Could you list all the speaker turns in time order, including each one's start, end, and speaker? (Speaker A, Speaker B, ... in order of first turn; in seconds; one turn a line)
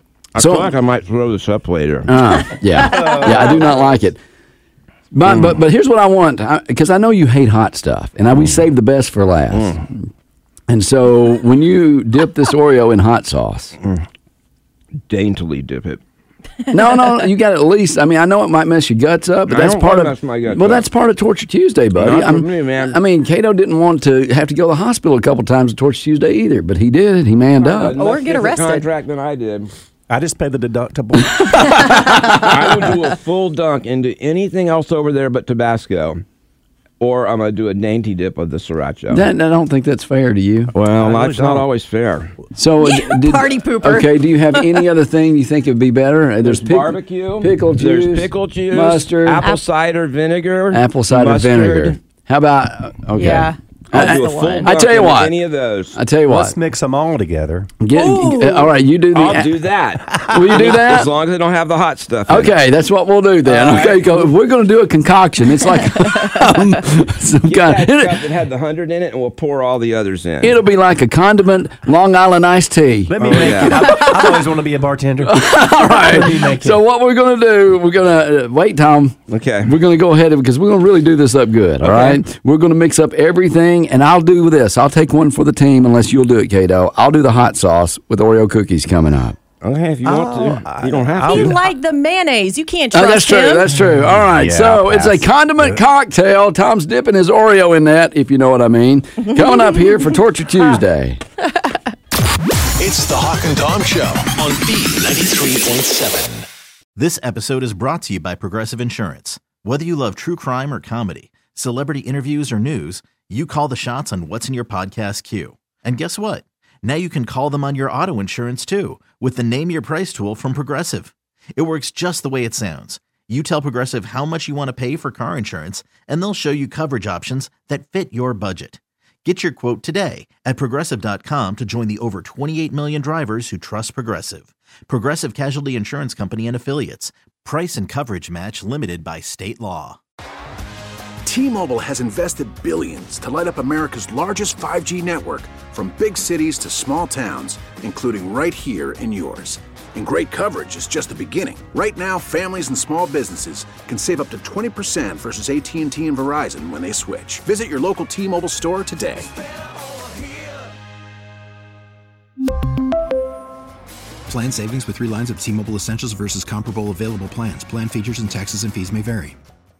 Speaker A: 0.3-2.1
Speaker B: 0.4-0.7
Speaker B: 2.1-4.2
Speaker A: 2.8-3.8
Speaker B: 5.1-9.9
Speaker A: 5.2-5.6
Speaker A: 9.5-9.8
Speaker B: 10.7-13.8
Speaker A: 15.1-16.0
Speaker B: 16.7-28.0
Speaker A: 19.5-20.9
Speaker A: 22.0-23.0
Speaker A: 27.6-29.7
Speaker C: 27.9-28.9
Speaker D: 30.1-31.9
Speaker B: 31.5-32.5
Speaker C: 31.8-32.2
Speaker A: 32.3-36.2
Speaker A: 37.0-39.3
Speaker B: 39.1-40.7
Speaker A: 40.7-42.3
Speaker D: 40.9-41.7
Speaker B: 42.5-49.5
Speaker C: 42.8-44.8
Speaker A: 46.4-52.0
Speaker B: 50.7-55.4
Speaker C: 53.1-54.7
Speaker A: 53.9-56.0
Speaker B: 55.9-56.5
Speaker D: 56.3-57.7
Speaker B: 57.8-59.5
Speaker C: 57.9-58.7
Speaker A: 59.1-62.6
Speaker B: 60.2-61.1
Speaker B: 62.3-68.2
Speaker A: 63.4-64.3
Speaker A: 67.4-70.6
Speaker B: 70.4-74.1
Speaker D: 73.1-76.8
Speaker A: 73.2-73.8
Speaker B: 75.2-89.3
Speaker A: 79.3-79.7
Speaker A: 81.8-82.2
Speaker A: 89.6-91.6
Speaker D: 90.0-91.6
Speaker C: 91.2-93.7
Speaker B: 92.9-101.2
Speaker D: 93.7-95.8
Speaker C: 99.3-100.0
Speaker E: 102.8-106.5
Speaker F: 107.0-140.0
Speaker G: 141.2-159.3
Speaker H: 164.3-169.3